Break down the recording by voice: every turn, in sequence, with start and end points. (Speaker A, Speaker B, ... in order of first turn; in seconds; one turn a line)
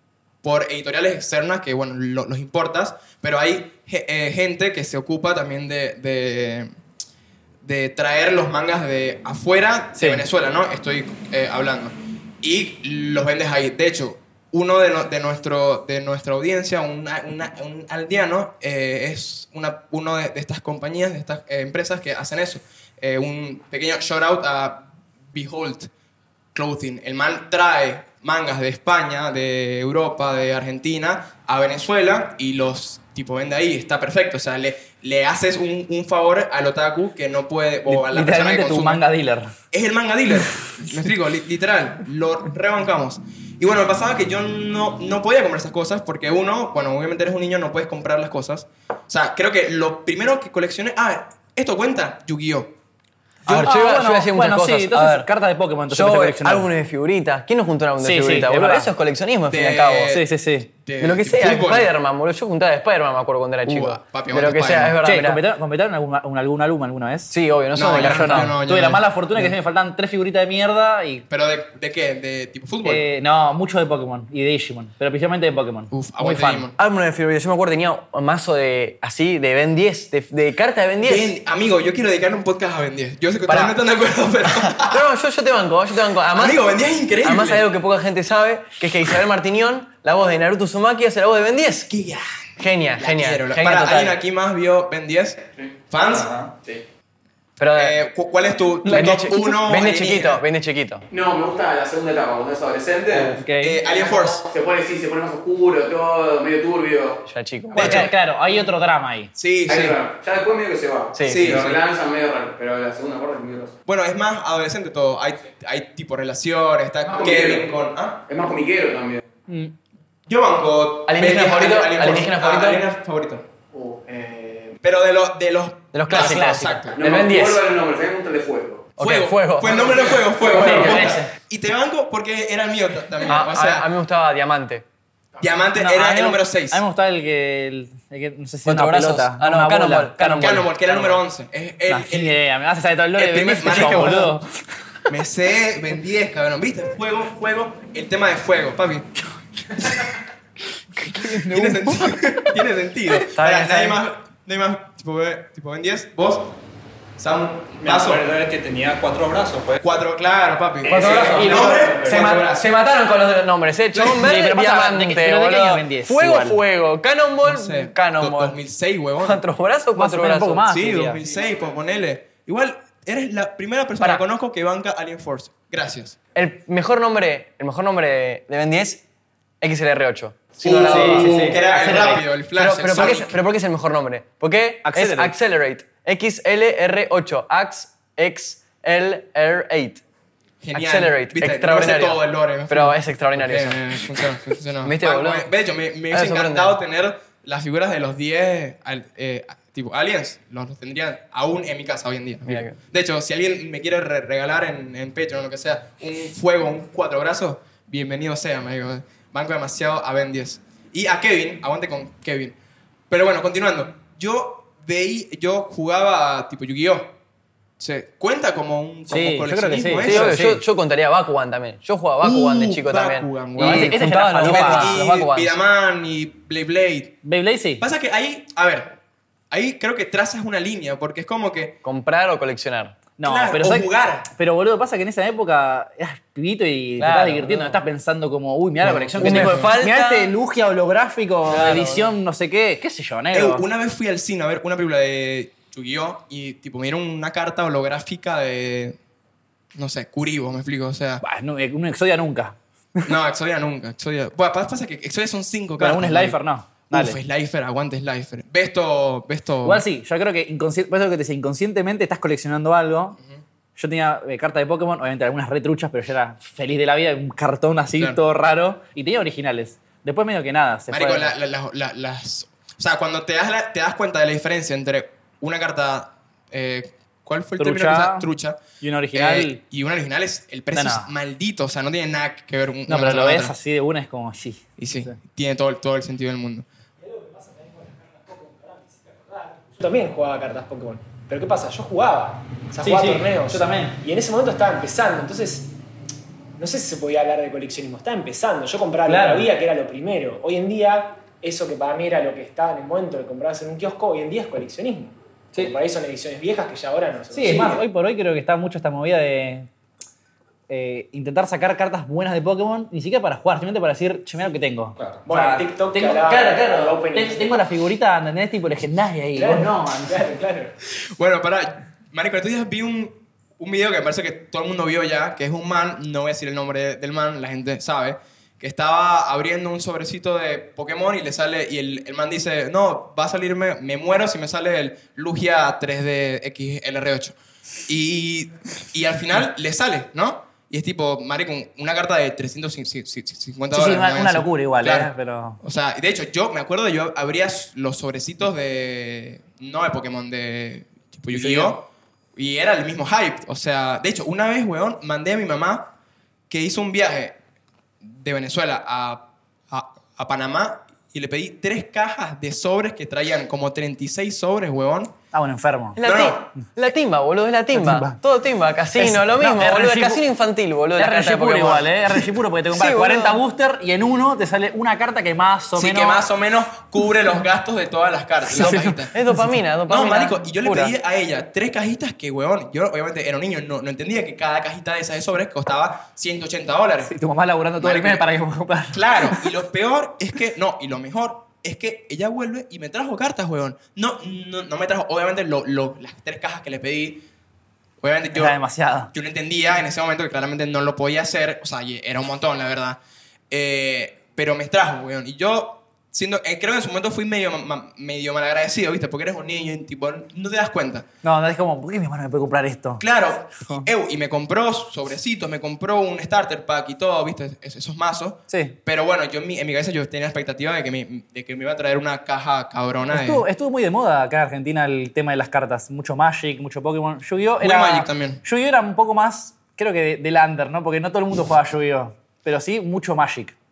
Speaker A: 0.4-6.7
Speaker A: 7.6-25.9
Speaker B: 10.0-10.2
Speaker A: 26.6-39.0
Speaker B: 37.9-39.5
Speaker A: 39.7-52.7
Speaker A: 53.5-53.7
Speaker C: 53.5-55.3
Speaker B: 53.5-56.7
Speaker C: 55.9-60.1
Speaker B: 58.0-58.9
Speaker A: 59.5-60.3
Speaker B: 60.1-60.7
Speaker A: 60.8-61.9
Speaker C: 61.0-65.4
Speaker A: 63.7-65.0
Speaker B: 65.0-67.3
Speaker C: 67.3-68.5
Speaker A: 67.8-69.5
Speaker B: 68.0-71.2
Speaker A: 71.3-73.0
Speaker B: 72.8-76.7
Speaker A: 75.9-76.8
Speaker C: 76.8-81.3
Speaker A: 81.0-85.0
Speaker C: 83.5-83.8
Speaker C: 84.5-91.9
Speaker A: 86.4-87.6
Speaker A: 91.9-96.3
Speaker C: 92.6-94.2
Speaker D: 96.0-96.5
Speaker C: 97.6-98.0
Speaker A: 97.8-100.4
Speaker C: 98.9-101.0
Speaker E: 101.1-107.2
Speaker B: 103.3-103.8
Speaker A: 103.6-104.5
Speaker C: 107.3-108.1
Speaker B: 107.7-109.3
Speaker A: 107.8-108.1
Speaker A: 109.3-110.0
Speaker E: 109.7-113.7
Speaker C: 111.1-111.6
Speaker A: 111.3-111.8
Speaker A: 113.9-118.2
Speaker E: 117.1-117.7
Speaker E: 118.3-119.2
Speaker B: 119.5-119.7
Speaker A: 120.3-123.5
Speaker C: 121.1-122.8
Speaker E: 123.7-124.7
Speaker A: 124.8-127.0
Speaker C: 125.9-127.6
Speaker B: 126.1-126.7
Speaker E: 127.0-128.9
Speaker C: 129.0-131.3
Speaker A: 129.0-133.9
Speaker E: 129.7-131.1
Speaker C: 133.3-134.8
Speaker A: 135.4-136.8
Speaker B: 135.8-140.6
Speaker C: 138.7-141.2
Speaker A: 140.3-142.4
Speaker B: 141.9-144.5
Speaker A: 143.2-144.3
Speaker A: 145.1-149.1
Speaker A: 149.8-150.1
Speaker B: 150.9-152.5
Speaker A: 151.5-156.5
Speaker C: 153.3-154.0
Speaker A: 157.2-158.2
Speaker D: 157.8-159.8
Speaker A: 159.8-162.7
Speaker D: 160.8-162.3
Speaker C: 160.9-168.6
Speaker B: 164.0-166.6
Speaker A: 167.4-169.4
Speaker C: 169.2-170.7
Speaker B: 170.0-171.2
Speaker A: 170.7-176.2
Speaker C: 176.3-179.0
Speaker C: 179.6-181.6
Speaker A: 180.6-183.3
Speaker B: 180.7-182.2
Speaker C: 182.6-190.0
Speaker B: 184.8-185.3
Speaker A: 190.6-212.6
Speaker C: 190.7-195.5
Speaker C: 196.1-196.8
Speaker C: 202.5-202.8
Speaker A: 213.1-217.1
Speaker A: 217.8-220.4
Speaker B: 219.1-220.6
Speaker C: 220.1-225.6
Speaker A: 222.2-227.2
Speaker B: 223.6-225.1
Speaker B: 227.2-227.8
Speaker A: 227.8-229.0
Speaker A: 229.5-231.8
Speaker C: 231.8-233.0
Speaker B: 233.2-243.7
Speaker A: 233.2-234.3
Speaker C: 237.0-237.8
Speaker A: 238.8-239.7
Speaker C: 239.2-240.3
Speaker C: 241.5-242.1
Speaker A: 243.3-249.0
Speaker A: 249.8-251.2
Speaker B: 251.2-253.1
Speaker A: 253.1-259.9
Speaker B: 255.8-257.2
Speaker B: 259.6-263.2
Speaker B: 263.8-271.3
Speaker A: 270.9-283.5
Speaker B: 277.6-278.3
Speaker B: 278.8-279.6
Speaker B: 280.7-281.1
Speaker B: 282.9-285.1
Speaker A: 284.8-286.6
Speaker F: 287.0-295.7
Speaker B: 292.8-294.0
Speaker F: 296.6-307.8
Speaker B: 299.1-299.5
Speaker B: 307.3-309.7
Speaker B: 310.7-320.3
Speaker D: 315.0-315.2
Speaker F: 315.2-317.6
Speaker F: 319.4-320.7
Speaker A: 321.2-337.4
Speaker A: 337.9-345.1
Speaker B: 343.7-345.6
Speaker A: 345.6-351.8
Speaker B: 351.3-351.8
Speaker A: 352.4-355.9
Speaker A: 356.5-357.4
Speaker A: 358.0-365.1
Speaker B: 365.3-366.0
Speaker C: 365.9-373.4
Speaker A: 366.0-366.4
Speaker B: 367.7-368.2
Speaker B: 369.0-370.2
Speaker B: 371.0-376.2
Speaker A: 375.8-379.1
Speaker B: 378.5-379.0
Speaker C: 378.6-380.9
Speaker A: 379.9-387.1
Speaker B: 387.1-389.4
Speaker A: 387.8-388.2
Speaker A: 388.9-397.2
Speaker A: 398.0-398.6
Speaker B: 398.3-399.1
Speaker A: 399.1-403.0
Speaker A: 403.5-411.1
Speaker B: 411.2-413.0
Speaker A: 413.0-423.4
Speaker B: 418.5-418.8
Speaker B: 423.1-433.6
Speaker A: 427.6-428.4